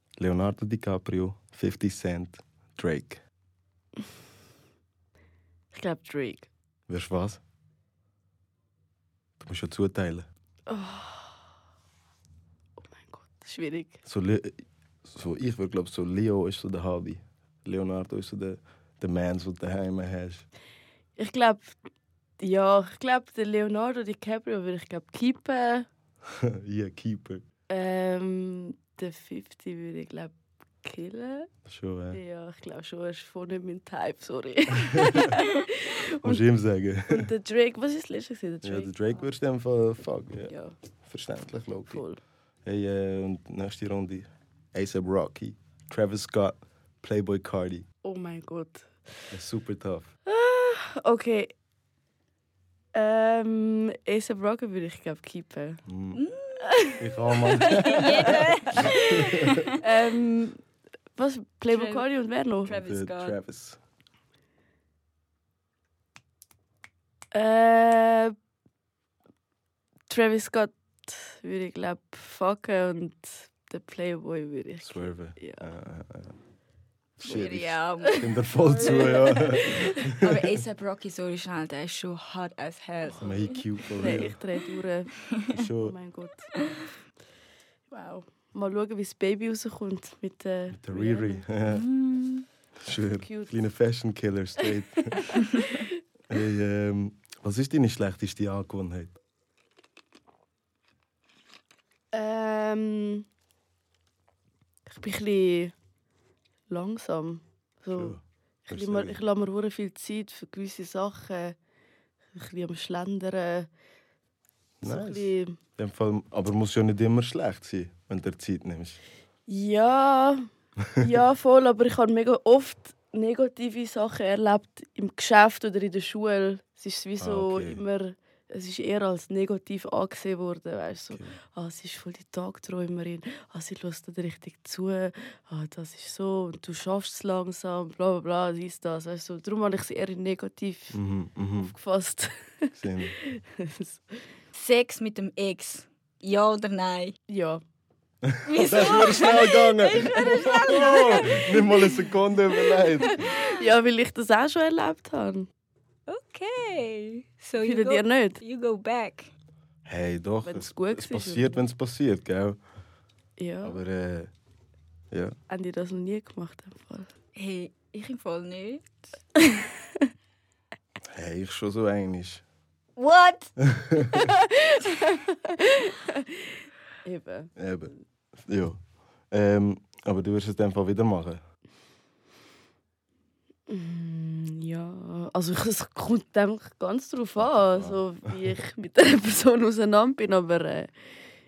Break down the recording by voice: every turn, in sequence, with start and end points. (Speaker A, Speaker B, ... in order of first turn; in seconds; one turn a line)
Speaker A: 0.2-3.2
Speaker B: 5.7-6.5
Speaker A: 6.9-7.4
Speaker A: 9.4-10.3
Speaker B: 10.7-11.4
Speaker B: 12.8-14.0
Speaker A: 14.0-20.5
Speaker B: 21.2-21.8
Speaker B: 22.4-25.9
Speaker A: 26.5-27.4
Speaker B: 27.7-31.5
Speaker A: 31.7-32.2
Speaker B: 32.1-36.4
Speaker A: 36.2-37.3
Speaker B: 37.1-39.1
Speaker A: 38.6-40.5
Speaker B: 40.5-40.8
Speaker A: 41.0-42.0
Speaker B: 41.9-42.2
Speaker A: 42.6-47.9
Speaker B: 48.0-48.9
Speaker A: 49.3-50.1
Speaker B: 50.3-51.5
Speaker B: 53.0-55.8
Speaker A: 55.9-56.2
Speaker C: 56.1-56.7
Speaker B: 56.6-58.3
Speaker A: 57.0-59.6
Speaker C: 57.6-59.8
Speaker B: 58.8-60.6
Speaker B: 61.1-62.7
Speaker C: 61.7-62.1
Speaker C: 62.6-63.4
Speaker A: 62.7-63.8
Speaker B: 67.3-68.3
Speaker B: 70.1-75.7
Speaker A: 74.8-76.4
Speaker A: 77.2-80.3
Speaker C: 77.2-83.8
Speaker B: 78.0-80.1
Speaker A: 83.2-84.4
Speaker B: 83.9-85.1
Speaker A: 85.5-86.0
Speaker B: 85.8-86.6
Speaker B: 87.9-91.5
Speaker A: 90.7-91.9
Speaker C: 91.7-92.5
Speaker A: 92.8-95.4
Speaker B: 93.1-93.6
Speaker B: 95.3-96.0
Speaker A: 96.3-99.1
Speaker B: 102.1-103.3
Speaker B: 104.9-105.7
Speaker B: 106.7-111.6
Speaker A: 107.9-109.2
Speaker B: 112.4-113.7
Speaker A: 114.8-119.0
Speaker B: 114.8-115.6
Speaker B: 119.5-120.5
Speaker B: 121.0-141.0
Speaker A: 127.2-127.8
Speaker A: 140.9-141.7
Speaker B: 141.6-144.0
Speaker A: 142.8-143.2
Speaker C: 144.5-147.2
Speaker B: 147.3-147.6
Speaker A: 148.3-153.2
Speaker C: 148.4-151.5
Speaker B: 151.2-151.9
Speaker B: 152.5-155.5
Speaker C: 153.1-153.5
Speaker C: 156.1-159.3
Speaker B: 157.6-158.4
Speaker A: 159.8-162.6
Speaker B: 160.4-161.6
Speaker B: 163.4-163.8
Speaker A: 163.6-164.3
Speaker B: 165.5-167.1
Speaker C: 167.4-168.9
Speaker B: 169.4-169.7
Speaker A: 171.2-172.4
Speaker C: 173.0-173.5
Speaker A: 173.6-174.2
Speaker B: 174.2-176.4
Speaker B: 177.1-177.5
Speaker A: 177.6-177.9
Speaker A: 178.5-181.4
Speaker B: 183.7-191.1
Speaker A: 187.4-188.0